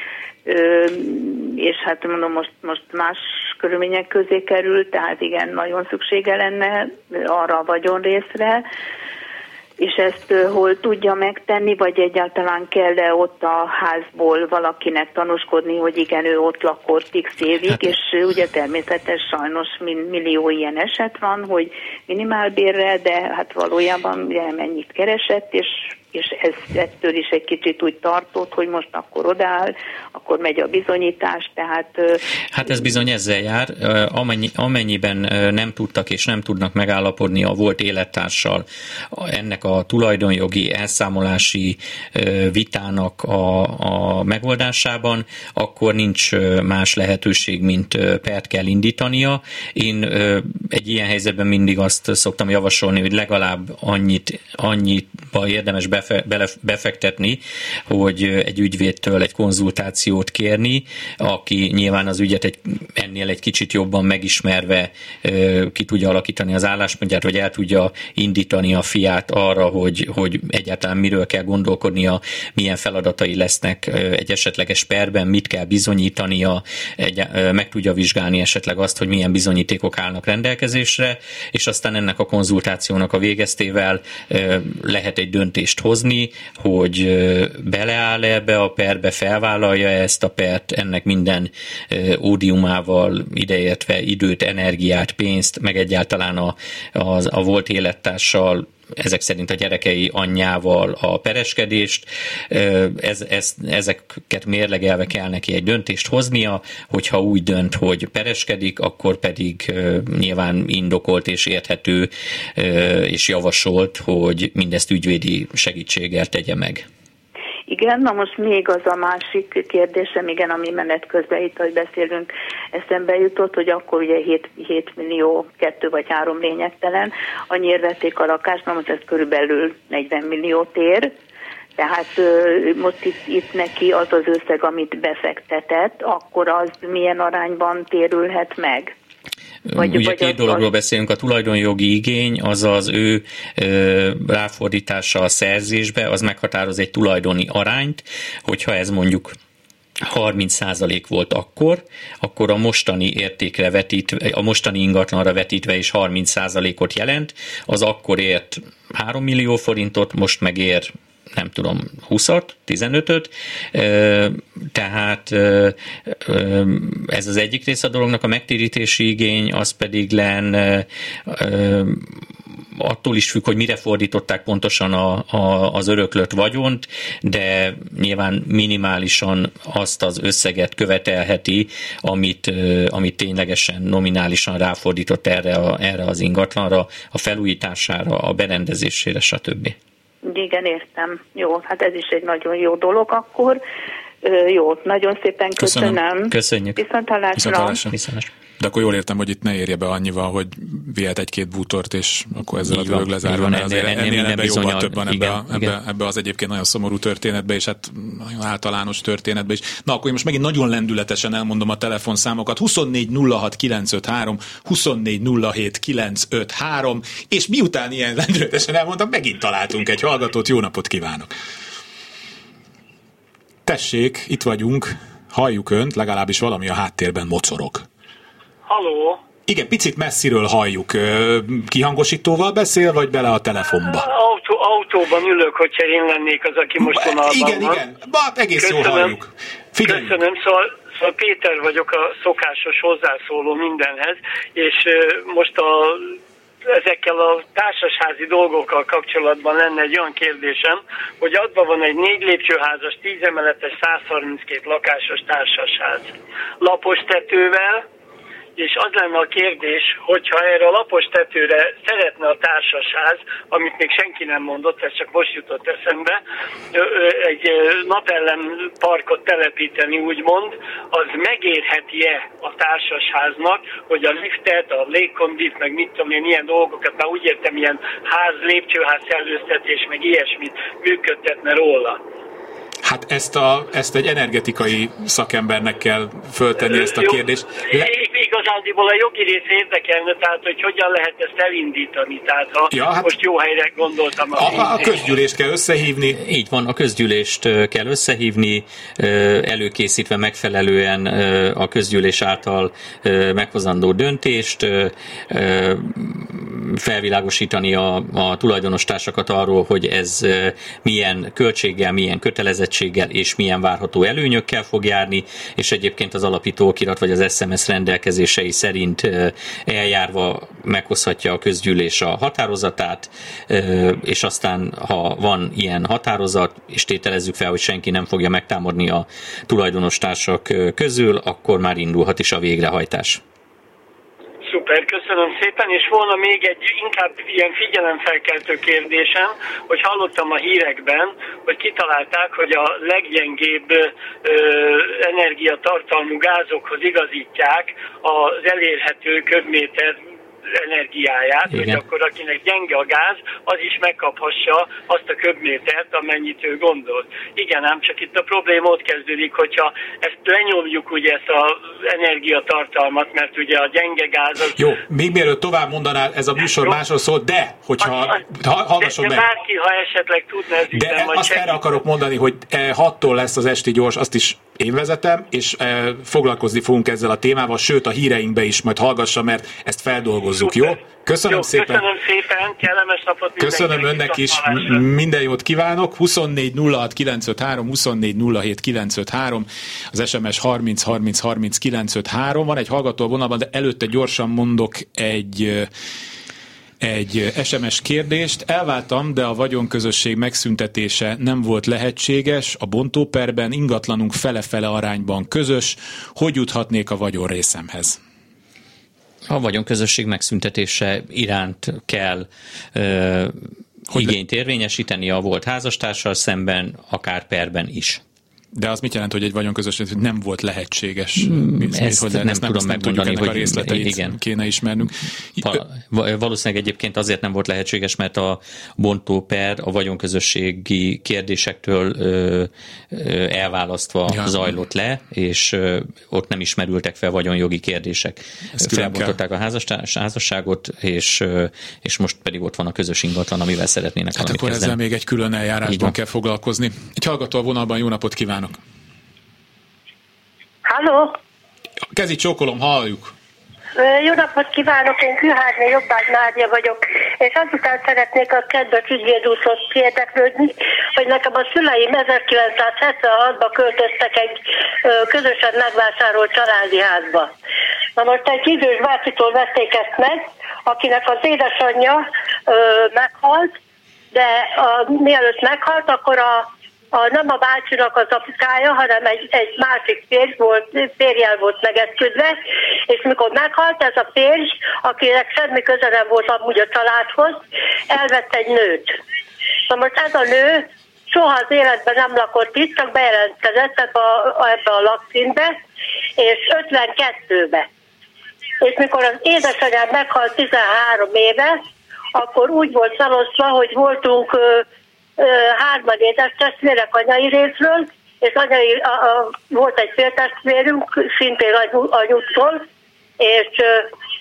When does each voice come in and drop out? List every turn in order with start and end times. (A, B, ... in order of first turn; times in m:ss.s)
0:00.4-0:08.6 A
0:09.8-0:32.2 A
0:32.5-1:56.8 B
1:57.7-2:11.1 A
2:11.8-2:18.9 A
2:19.7-2:29.4 B
2:19.8-2:20.6 A
2:30.0-2:52.1 B
2:52.8-3:09.7 B
3:10.2-3:13.6 A
3:14.2-3:17.9 A
3:15.6-3:16.0 C
3:16.3-3:16.8 B
3:17.4-3:17.9 C
3:17.8-3:18.3 B
3:18.6-3:41.3 C
3:22.7-3:25.7 B
3:43.6-3:47.8 C
3:48.6-3:49.2 D
3:49.5-3:54.1 C
3:53.9-3:57.8 D
3:56.8-4:00.1 C
3:58.6-3:59.1 D
3:59.8-4:16.1 D
4:16.6-4:17.8 D
4:18.6-4:26.2 D
4:26.7-4:42.0 D
4:42.8-4:47.9 C
4:46.7-4:54.9 D
4:52.7-4:53.1 C
4:54.3-4:56.2 C
4:56.1-5:33.2 B
5:34.4-5:50.0 D
5:50.5-6:04.6 D
5:51.5-5:51.8 B
6:04.6-6:09.2 C
6:07.8-6:08.2 D
6:08.8-6:11.6 D
6:10.7-6:21.8 C
6:20.4-6:24.8 D
6:23.4-6:35.7 C
6:36.8-6:48.0 C
6:49.3-6:58.0 B
6:58.5-7:05.6 C
7:01.2-7:04.2 B
7:05.4-7:24.8 B
7:14.1-7:14.5 C
7:18.5-7:19.2 C
7:24.2-7:28.6 C
7:25.7-7:25.9 B
7:30.6-7:31.2 E
7:31.9-7:33.1 C
7:33.8-7:47.3 E
7:48.0-7:53.5 E
7:54.1-8:09.0 E
8:09.7-8:15.6 E
8:16.2-8:17.7 E
8:18.6-8:21.6 E
8:22.1-8:24.6 E
8:25.2-8:32.6 E
8:33.2-8:33.9 E